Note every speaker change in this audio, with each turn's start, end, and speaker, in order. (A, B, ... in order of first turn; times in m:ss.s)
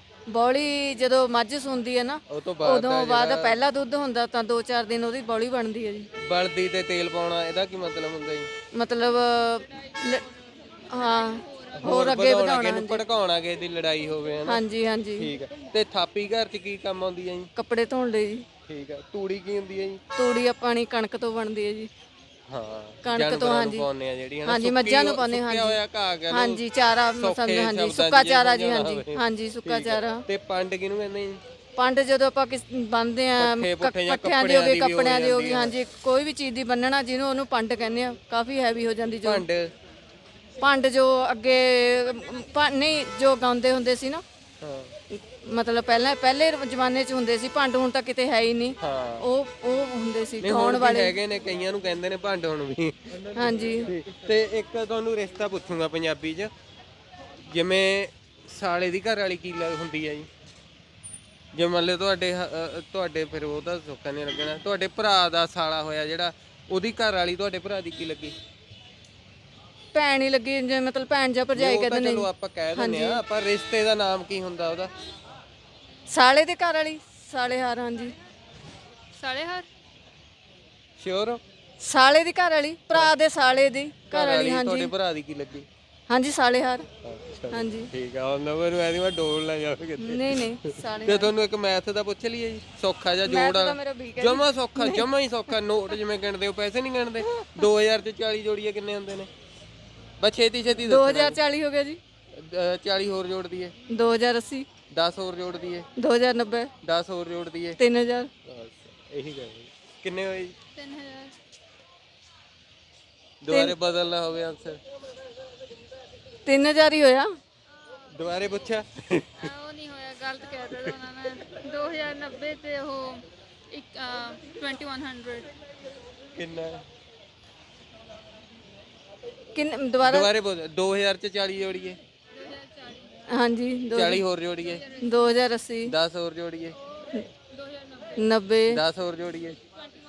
0:00.3-0:06.1 A
0:02.3-0:03.6 B
0:06.2-0:08.5 B
0:08.7-0:10.2 A
0:10.9-0:13.0 A
0:11.8-0:14.6 B
0:14.4-0:15.3 A
0:15.2-0:17.5 B
0:17.6-0:18.4 A
0:18.7-0:20.0 B
0:20.2-0:21.9 A
0:22.5-0:26.6 B
0:23.0-0:23.9 A
0:24.4-0:30.2 A
0:27.1-0:31.4 B
0:31.8-0:39.4 A
0:33.4-0:35.7 B
0:39.2-0:39.7 B
0:40.6-0:44.2 A
0:44.6-0:44.9 B
0:45.1-0:51.2 A
0:48.8-0:49.2 B
0:50.4-0:56.5 B
0:53.3-0:53.9 A
0:57.4-1:00.3 B
1:01.5-1:08.3 B
1:09.9-1:13.2 A
1:11.5-1:14.9 B
1:16.1-1:18.2 A
1:19.2-1:19.6 C
1:21.0-1:21.4 B
1:21.8-1:24.9 A
1:24.1-1:25.6 B
1:26.1-1:26.9 A
1:27.0-1:30.4 B
1:27.5-1:27.9 A
1:30.0-1:31.3 A
1:31.0-1:39.3 B
1:33.2-1:35.0 A
1:40.2-1:41.4 B
1:40.8-1:42.0 A
1:42.3-1:43.7 B
1:43.9-1:44.7 A
1:44.9-1:45.9 B
1:46.0-1:46.7 A
1:46.8-1:47.8 B
1:47.8-1:48.3 A
1:48.5-1:50.5 B
1:50.7-1:51.3 C
1:53.4-1:54.8 B
1:56.4-1:57.3 A
1:58.1-1:59.5 B
1:59.4-2:05.5 C
2:06.4-2:06.8 B
2:09.5-2:10.3 A
2:10.0-2:12.0 B
2:12.4-2:13.1 C
2:13.3-2:14.2 A
2:13.9-2:14.8 B
2:14.8-2:15.1 C
2:15.0-2:15.9 A
2:15.9-2:16.8 B
2:17.6-2:18.2 C
2:18.2-2:18.8 A
2:18.7-2:19.6 B